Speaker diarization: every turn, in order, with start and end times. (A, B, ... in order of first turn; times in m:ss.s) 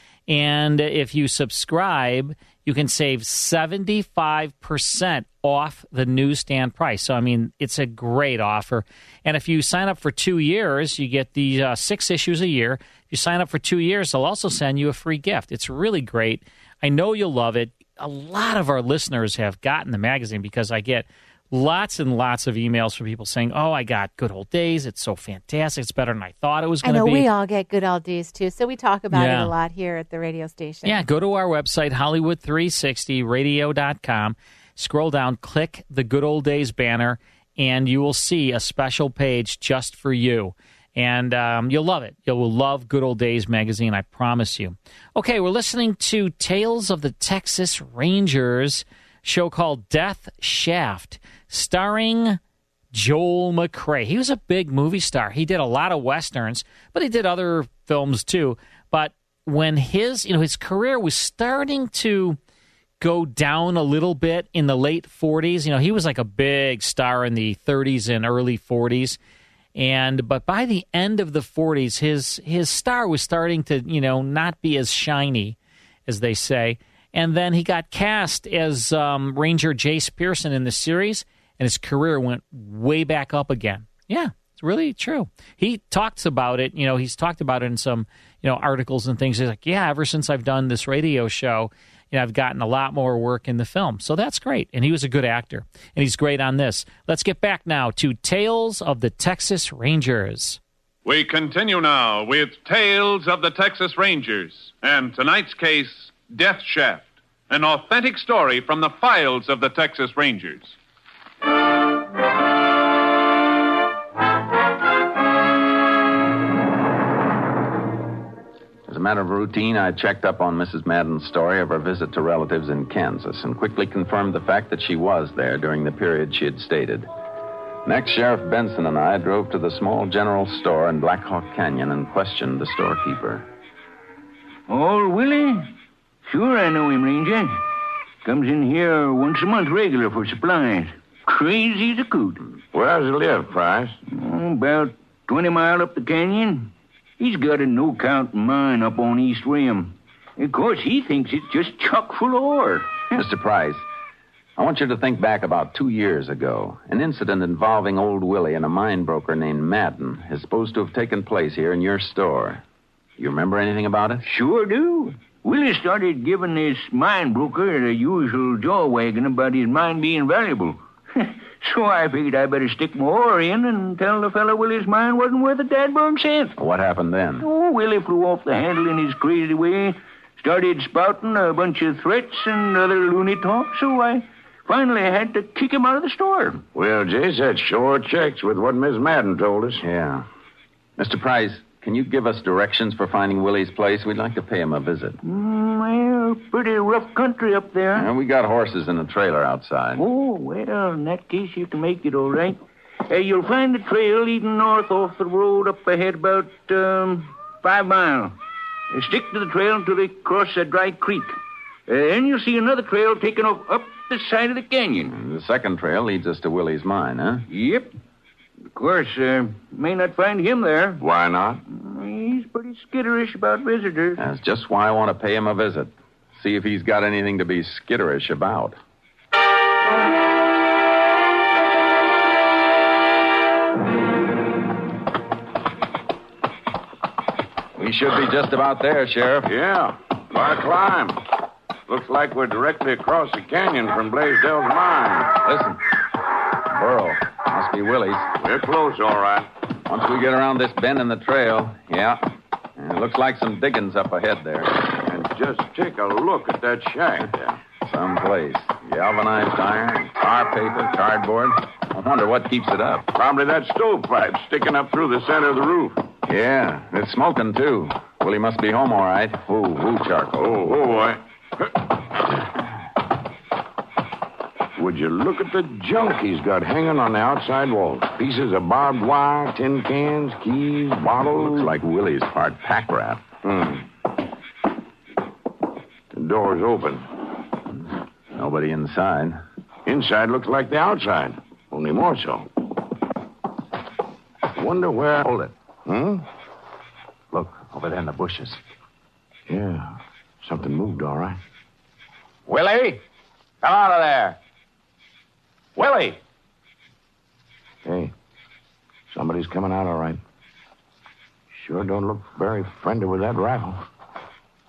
0:00.3-0:27.3 A
0:26.8-0:31.0 B
0:29.1-0:29.5 A
0:30.8-0:52.4 A
0:52.9-1:02.4 A
1:03.0-1:09.2 A
1:09.8-1:40.6 A
1:41.0-1:50.8 C
1:58.9-2:07.1 D
2:07.8-2:13.5 D
2:14.7-2:15.7 E
2:16.3-2:17.6 E
2:18.2-2:22.4 E
2:22.7-2:24.0 F
2:24.1-2:33.2 E
2:33.1-2:33.8 D
2:34.6-2:42.6 D
2:43.2-2:44.2 D
2:44.2-2:56.6 E
2:56.6-2:57.5 D
2:57.4-3:06.6 E
3:06.8-3:09.8 F
3:09.8-3:10.3 D
3:11.0-3:15.2 D
3:15.2-3:18.1 E
3:17.9-3:20.0 D
3:20.0-3:28.4 E
3:28.9-3:31.4 E
3:31.9-3:35.1 E
3:35.1-3:37.5 D
3:37.5-3:37.9 E
3:38.8-3:41.0 E
3:41.0-3:41.6 F
3:41.7-3:44.2 E
3:44.2-3:48.8 D
3:57.8-3:59.5 D
3:59.4-4:01.2 F
4:01.9-4:05.4 F
4:05.4-4:05.8 D
4:06.7-4:08.3 D
4:08.4-4:09.5 F
4:09.9-4:14.8 D
4:15.1-4:17.6 F
4:17.8-4:23.1 D
4:23.1-4:26.0 F
4:26.3-4:30.5 D
4:30.4-4:31.2 F
4:34.8-4:41.7 F
4:41.2-4:43.2 D
4:43.4-4:43.8 F
4:46.1-4:47.1 F
4:48.3-4:49.4 D
4:49.9-4:52.5 F
4:54.6-4:55.2 F
4:55.2-4:55.5 D
4:55.9-4:56.2 F
4:57.3-4:58.6 D
4:59.5-5:01.4 F
5:02.5-5:03.0 D
5:03.6-5:04.4 D
5:05.8-5:06.2 D
5:07.8-5:08.1 F
5:09.1-5:10.2 F
5:11.5-5:13.8 F